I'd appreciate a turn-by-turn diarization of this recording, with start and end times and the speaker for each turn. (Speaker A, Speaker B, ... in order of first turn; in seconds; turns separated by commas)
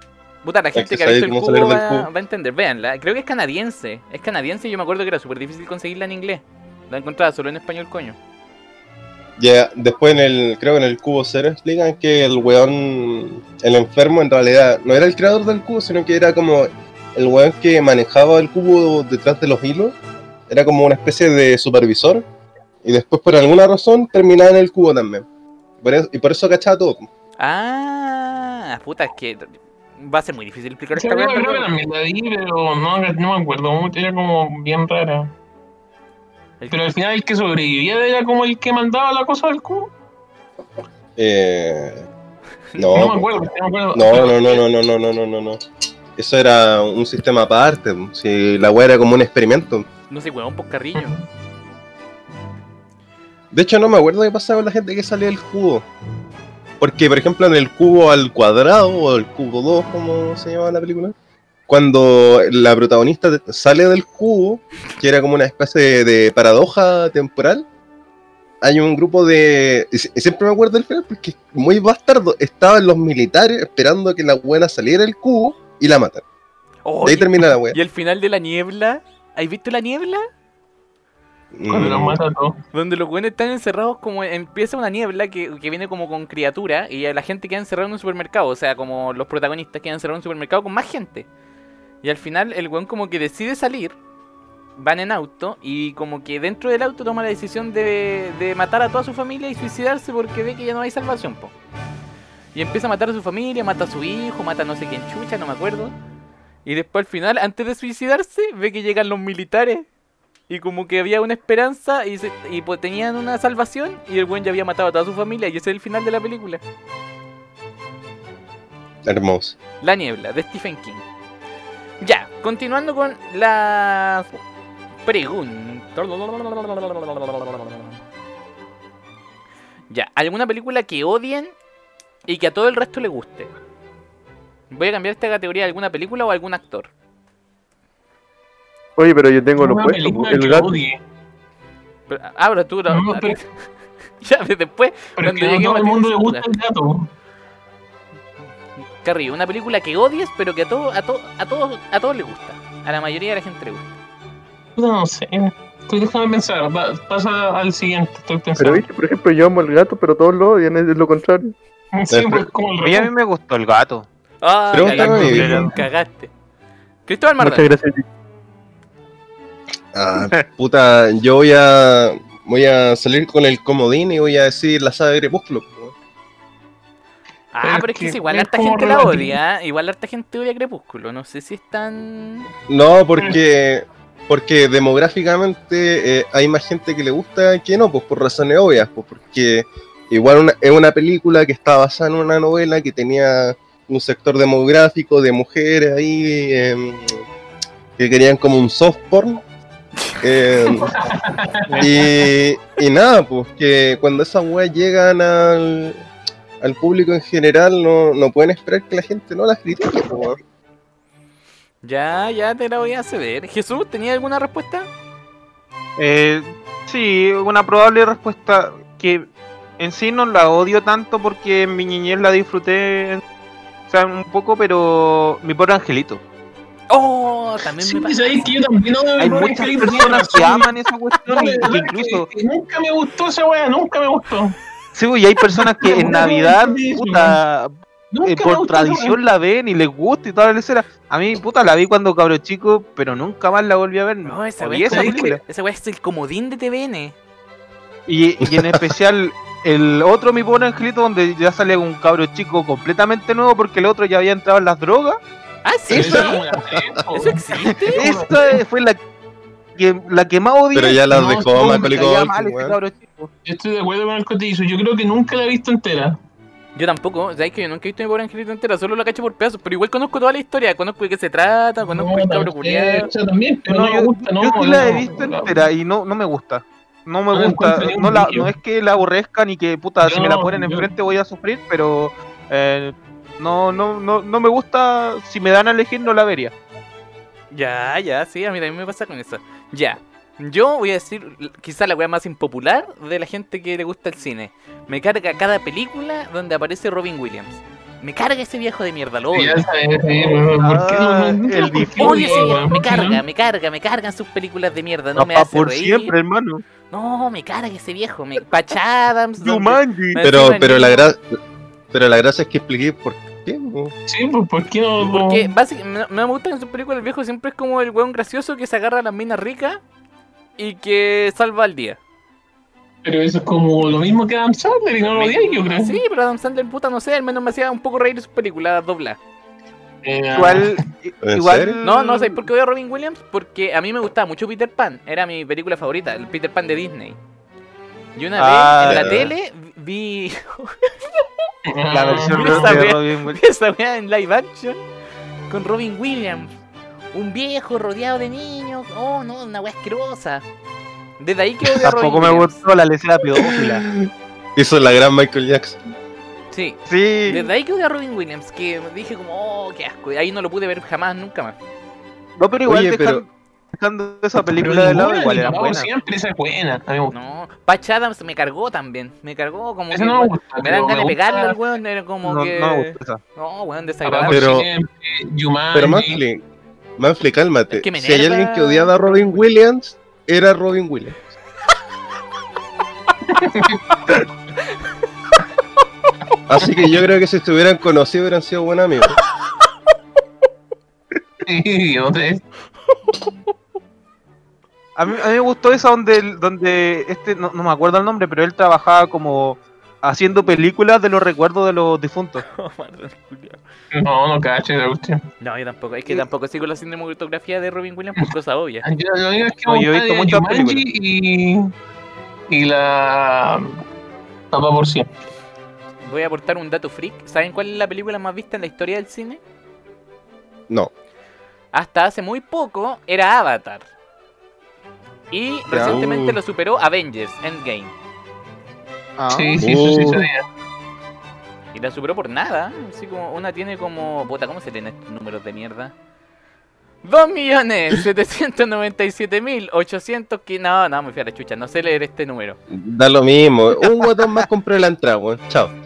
Speaker A: 0.4-8.2, Speaker B: 0.8-2.1, Speaker B: 9.4-19.9, Speaker B: 20.5-22.2, Speaker B: 22.8-25.3, Speaker B: 25.8-27.1, Speaker A: 27.4-31.7, Speaker C: 30.9-35.3, Speaker C: 36.7-39.9, Speaker B: 41.2-42.1, Speaker B: 42.8-43.3, Speaker C: 42.9-44.6, Speaker B: 43.9-45.6, Speaker B: 46.2-49.9, Speaker A: 50.1-51.2, Speaker C: 51.0-51.2, Speaker B: 53.5-55.9, Speaker B: 56.8-61.1, Speaker B: 61.7-67.7, Speaker B: 68.6-76.2, Speaker A: 76.8-80.3, Speaker B: 77.0-77.8, Speaker B: 81.5-82.2, Speaker C: 81.7-82.6, Speaker A: 82.7-91.3, Speaker A: 92.0-94.0, Speaker A: 94.8-101.5, Speaker A: 102.5-105.9, Speaker A: 106.7-109.9, Speaker A: 110.5-116.6, Speaker B: 119.0-119.6, Speaker A: 119.8-121.0, Speaker A: 122.0-124.4, Speaker A: 125.0-128.0, Speaker A: 129.9-131.5, Speaker A: 132.3-133.5, Speaker A: 134.7-136.9, Speaker D: 139.0-140.7, Speaker C: 139.6-141.0, Speaker A: 142.1-143.5, Speaker C: 142.9-143.4, Speaker A: 144.2-146.5, Speaker C: 145.2-147.1, Speaker A: 149.0-153.9, Speaker C: 154.8-158.8, Speaker D: 158.6-161.5, Speaker C: 161.9-163.1, Speaker B: 162.1-162.4, Speaker E: 162.8-164.1, Speaker A: 164.4-166.3, Speaker B: 164.7-165.7, Speaker E: 164.8-165.8, Speaker A: 167.1-167.7, Speaker D: 167.4-168.0, Speaker B: 169.9-175.9, Speaker A: 177.5-182.5, Speaker C: 177.6-179.4, Speaker B: 182.7-197.3, Speaker B: 198.0-199.4, Speaker B: 200.2-200.9, Speaker C: 200.6-202.1, Speaker E: 201.7-202.0, Speaker B: 201.8-206.1, Speaker B: 206.6-210.4, Speaker A: 211.8-214.9, Speaker E: 216.0-223.2, Speaker E: 223.9-226.2, Speaker A: 226.9-228.5, Speaker C: 227.8-230.7, Speaker E: 229.2-232.3, Speaker C: 231.3-234.6, Speaker E: 234.9-237.7, Speaker C: 235.6-237.4, Speaker C: 238.1-239.2, Speaker E: 238.3-245.4, Speaker A: 244.2-247.2, Speaker C: 244.9-245.3, Speaker E: 248.1-255.2, Speaker B: 248.4-248.8, Speaker A: 255.7-256.4, Speaker B: 255.9-256.9, Speaker C: 255.9-258.6, Speaker A: 257.1-258.0, Speaker E: 257.9-259.0, Speaker E: 259.8-263.3, Speaker B: 260.7-262.8, Speaker C: 261.1-262.0, Speaker C: 263.4-266.2, Speaker A: 266.8-273.1, Speaker C: 271.8-275.7, Speaker E: 273.7-286.5, Speaker C: 277.3-278.5, Speaker C: 280.0-280.9, Speaker A: 287.5-299.6, Speaker C: 299.3-303.2, Speaker E: 300.6-302.6, Speaker A: 302.0-306.1, Speaker E: 305.2-306.6, Speaker A: 306.9-311.1, Speaker E: 309.4-310.2, Speaker B: 310.2-311.4, Speaker B: 311.9-313.9, Speaker C: 314.1-315.5, Speaker A: 315.0-319.8, Speaker A: 320.6-322.0, Speaker C: 323.0-326.0, Speaker A: 325.1-329.2, Speaker C: 330.0-330.8, Speaker E: 330.3-332.4, Speaker B: 331.2-331.8, Speaker A: 331.8-337.2, Speaker A: 338.2-341.2, Speaker E: 338.4-339.3, Speaker B: 338.9-339.3, Speaker C: 341.7-342.8, Speaker E: 341.9-343.4, Speaker A: 342.2-344.8, Speaker A: 345.5-346.6, Speaker A: 347.1-350.4, Speaker A: 351.2-352.6, Speaker E: 351.8-353.9, Speaker B: 353.4-355.8, Speaker A: 356.5-361.6, Speaker E: 356.9-357.5, Speaker E: 362.4-365.9, Speaker B: 362.7-363.2, Speaker C: 364.6-367.2, Speaker A: 367.1-374.5, Speaker C: 369.9-371.6, Speaker E: 372.2-373.2, Speaker C: 374.0-376.2, Speaker B: 374.3-374.7, Speaker B: 375.7-376.4, Speaker B: 377.0-381.2, Speaker A: 377.7-379.5, Speaker C: 383.3-384.2, Speaker B: 386.5-389.2, Speaker C: 391.4-392.4, Speaker E: 395.0-402.4, Speaker A: 402.4-403.6, Speaker C: 403.9-405.2, Speaker A: 405.4-408.9, Speaker C: 408.8-411.7, Speaker E: 409.7-410.8, Speaker C: 412.5-413.8, Speaker C: 414.5-415.1, Speaker A: 416.0-419.4, Speaker A: 421.7-423.9, Speaker A: 425.3-427.9, Speaker B: 425.7-426.4, Speaker E: 429.2-429.7, Speaker C: 429.3-430.4, Speaker B: 429.6-430.3, Speaker A: 431.7-435.9, Speaker A: 437.0-442.6, Speaker B: 442.7-445.7